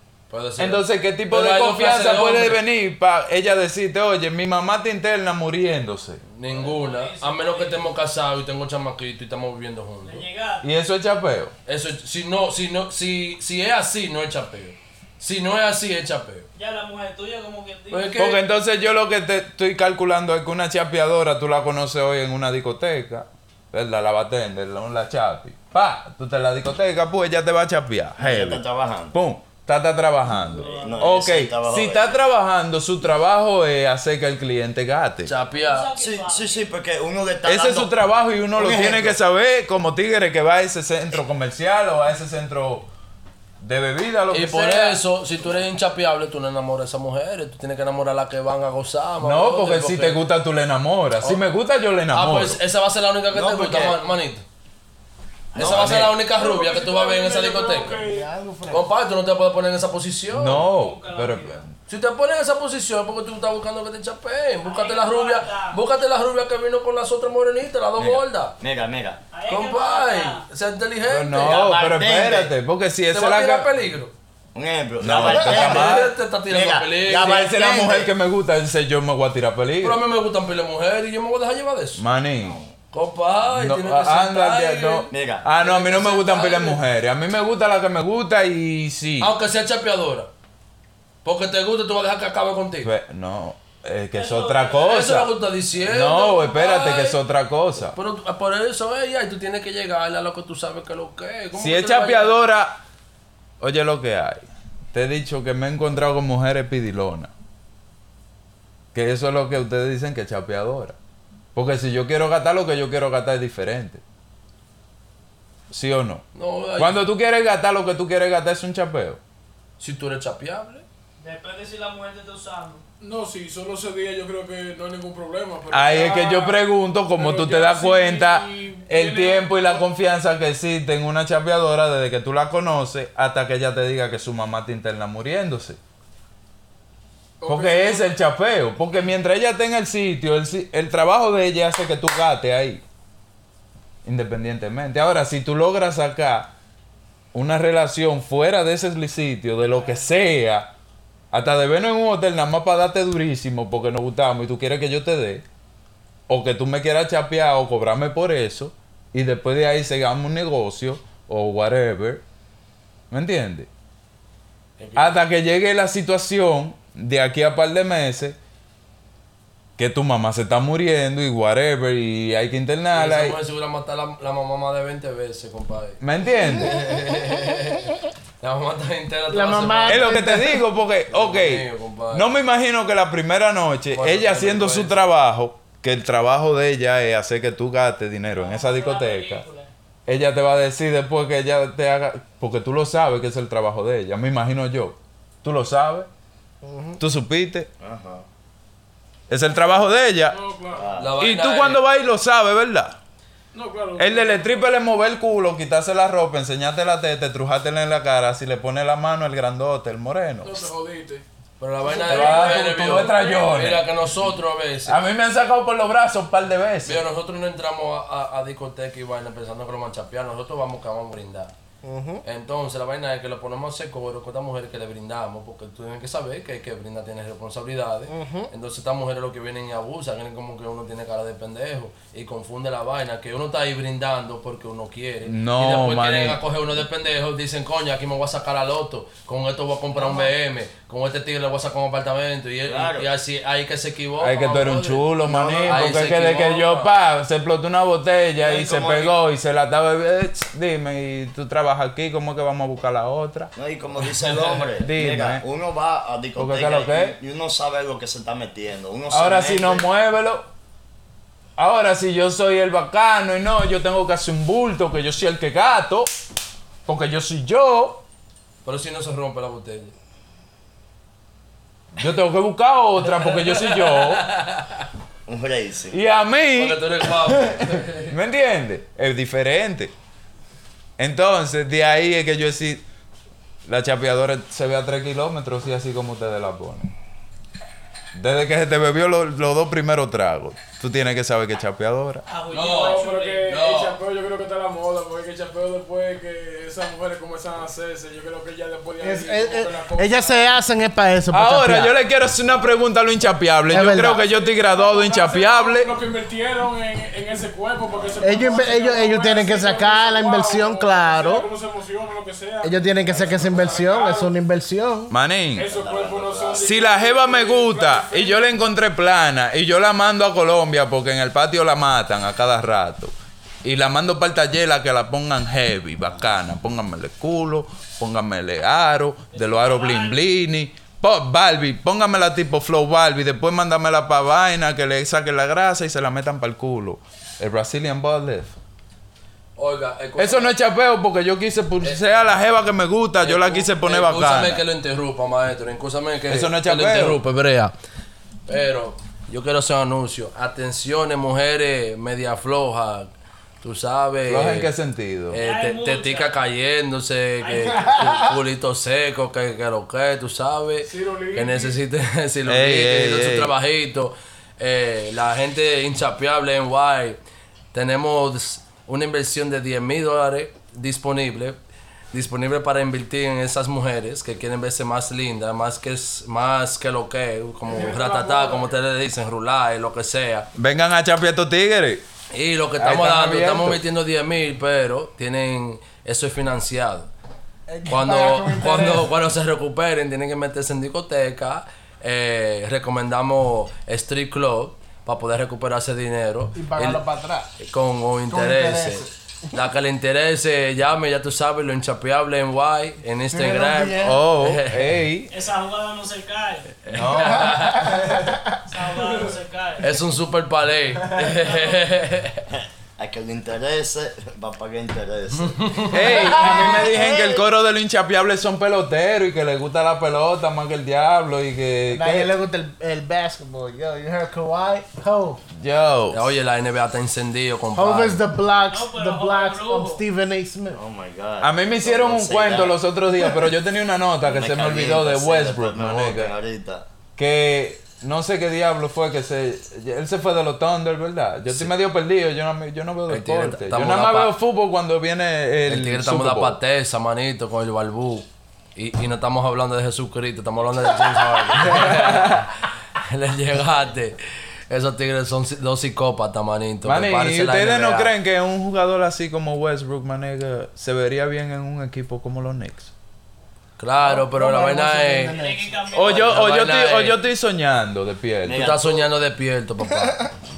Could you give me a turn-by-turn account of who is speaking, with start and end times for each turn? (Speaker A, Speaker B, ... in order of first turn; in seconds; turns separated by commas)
Speaker A: 0.3-2.6, Speaker B: 0.6-6.2, Speaker A: 6.3-10.2, Speaker C: 6.5-8.0, Speaker C: 10.0-10.7, Speaker B: 10.6-11.5, Speaker A: 11.7-16.5, Speaker C: 16.6-18.2, Speaker A: 17.9-18.4, Speaker B: 18.2-35.3, Speaker D: 28.2-29.2, Speaker C: 30.4-31.1, Speaker D: 30.6-32.2, Speaker A: 35.2-35.9, Speaker C: 35.5-36.7, Speaker D: 36.0-37.9, Speaker B: 37.4-42.9, Speaker D: 38.5-39.2, Speaker B: 43.6-45.0, Speaker A: 44.3-50.2, Speaker B: 49.2-52.6, Speaker A: 52.1-54.5, Speaker D: 53.3-54.0, Speaker A: 55.5-58.0, Speaker D: 55.5-56.1, Speaker B: 55.7-56.0, Speaker E: 56.2-58.3, Speaker F: 58.0-58.9, Speaker A: 58.7-60.7, Speaker B: 60.3-61.8, Speaker C: 60.6-61.6, Speaker A: 61.9-68.6, Speaker C: 64.6-65.8, Speaker D: 68.0-69.2, Speaker C: 69.3-70.4, Speaker A: 69.5-71.7, Speaker B: 71.1-73.7, Speaker D: 71.3-72.5, Speaker A: 73.1-74.1, Speaker D: 74.5-78.1, Speaker B: 75.0-76.1, Speaker A: 75.2-77.4, Speaker B: 77.2-80.0, Speaker A: 79.8-82.0, Speaker B: 82.0-82.6, Speaker D: 82.4-82.7, Speaker A: 82.9-86.8, Speaker B: 83.5-89.3, Speaker D: 85.1-85.5, Speaker A: 89.2-90.3, Speaker A: 91.2-92.9, Speaker B: 92.8-98.0, Speaker C: 94.1-95.1, Speaker A: 94.8-97.2, Speaker A: 97.8-102.3, Speaker B: 101.6-102.8, Speaker B: 103.6-107.3, Speaker B: 108.9-111.0, Speaker B: 111.5-114.0, Speaker B: 115.7-116.3, Speaker A: 116.3-117.0, Speaker B: 116.8-119.2, Speaker A: 119.8-120.9, Speaker C: 121.2-122.8, Speaker E: 123.0-129.9, Speaker B: 125.7-135.8, Speaker E: 137.4-138.1, Speaker B: 137.4-142.8, Speaker B: 144.1-146.5, Speaker B: 147.3-150.7, Speaker B: 151.3-155.4, Speaker B: 156.3-162.2, Speaker B: 163.1-163.7, Speaker A: 164.8-165.2, Speaker B: 165.0-168.4, Speaker B: 169.8-173.4, Speaker A: 172.9-180.2, Speaker B: 176.0-176.9, Speaker F: 179.3-180.6, Speaker B: 179.9-189.4, Speaker A: 181.1-182.3, Speaker A: 183.9-185.0, Speaker C: 188.4-189.7, Speaker B: 190.1-196.1, Speaker F: 196.6-197.0, Speaker B: 197.0-197.7, Speaker D: 197.8-198.2, Speaker B: 199.3-200.4, Speaker E: 200.3-200.9, Speaker D: 200.7-201.2, Speaker A: 201.0-201.8, Speaker B: 201.2-203.0, Speaker E: 203.5-204.6, Speaker B: 204.0-210.6, Speaker E: 210.4-211.2, Speaker A: 211.6-215.0, Speaker E: 211.9-213.5, Speaker B: 212.1-213.9, Speaker B: 214.9-217.0, Speaker A: 216.8-221.5, Speaker F: 221.8-222.2, Speaker A: 222.2-245.1, Speaker F: 228.1-228.5, Speaker B: 235.3-236.4, Speaker D: 240.0-240.3, Speaker D: 242.7-243.1, Speaker B: 244.2-253.5, Speaker D: 245.2-246.2, Speaker A: 245.7-246.9, Speaker D: 248.4-249.2, Speaker D: 253.6-259.9, Speaker B: 254.3-255.4, Speaker B: 256.4-257.2, Speaker B: 259.1-260.5, Speaker B: 261.6-266.1, Speaker B: 266.9-268.0, Speaker A: 268.6-269.9, Speaker B: 272.0-274.3, Speaker A: 273.1-274.9, Speaker D: 275.3-276.0, Speaker B: 275.9-276.8, Speaker A: 276.6-278.1, Speaker B: 277.3-279.9, Speaker B: 281.0-282.8, Speaker B: 283.7-286.9, Speaker B: 288.1-292.2, Speaker C: 292.3-293.6, Speaker A: 292.5-294.0, Speaker E: 292.5-300.5, Speaker F: 299.0-301.9, Speaker B: 301.3-305.9, Speaker F: 303.7-304.3, Speaker E: 304.1-314.3, Speaker F: 308.2-311.5, Speaker F: 312.6-315.1, Speaker B: 315.1-315.7, Speaker E: 315.5-318.6, Speaker D: 315.7-316.9, Speaker B: 316.6-323.1, Speaker B: 323.6-338.5, Speaker C: 329.3-330.2, Speaker A: 339.6-340.6, Speaker B: 340.2-344.6, Speaker A: 343.2-347.7, Speaker B: 346.3-347.2, Speaker A: 348.5-354.7, Speaker B: 354.2-355.4, Speaker A: 355.3-367.2, Speaker C: 355.4-356.4, Speaker C: 357.4-358.2, Speaker E: 360.9-361.8, Speaker B: 362.5-363.6, Speaker A: 367.7-371.6, Speaker A: 372.1-380.5, Speaker E: 377.7-378.7, Speaker B: 380.6-382.0, Speaker A: 382.3-387.1, Speaker B: 382.8-383.8, Speaker F: 387.7-389.1, Speaker A: 387.9-397.0, Speaker F: 396.6-397.5, Speaker A: 397.6-404.9, Speaker F: 398.3-399.6, Speaker F: 403.3-404.2, Speaker B: 404.0-405.3, Speaker C: 405.3-406.8, Speaker A: 406.9-408.0, Speaker B: 406.9-408.2, Speaker F: 407.8-408.4, Speaker C: 408.7-409.9, Speaker A: 409.8-412.4, Speaker D: 412.5-417.2, Speaker A: 415.4-416.1, Speaker B: 415.9-422.3, Speaker F: 416.1-417.4, Speaker F: 421.9-425.4, Speaker B: 425.6-426.3, Speaker A: 426.1-428.3, Speaker F: 427.8-430.8, Speaker C: 428.7-430.0, Speaker D: 430.7-432.8, Speaker B: 431.4-436.4, Speaker D: 434.2-436.9, Speaker B: 437.2-446.6, Speaker A: 443.1-444.3, Speaker A: 445.7-454.2, Speaker B: 451.6-452.5, Speaker A: 454.7-458.1, Speaker B: 456.8-462.9, Speaker A: 463.8-465.4, Speaker F: 464.0-466.0, Speaker C: 465.3-466.6, Speaker B: 465.9-468.7, Speaker A: 466.0-467.2, Speaker D: 468.4-469.1, Speaker A: 468.5-470.4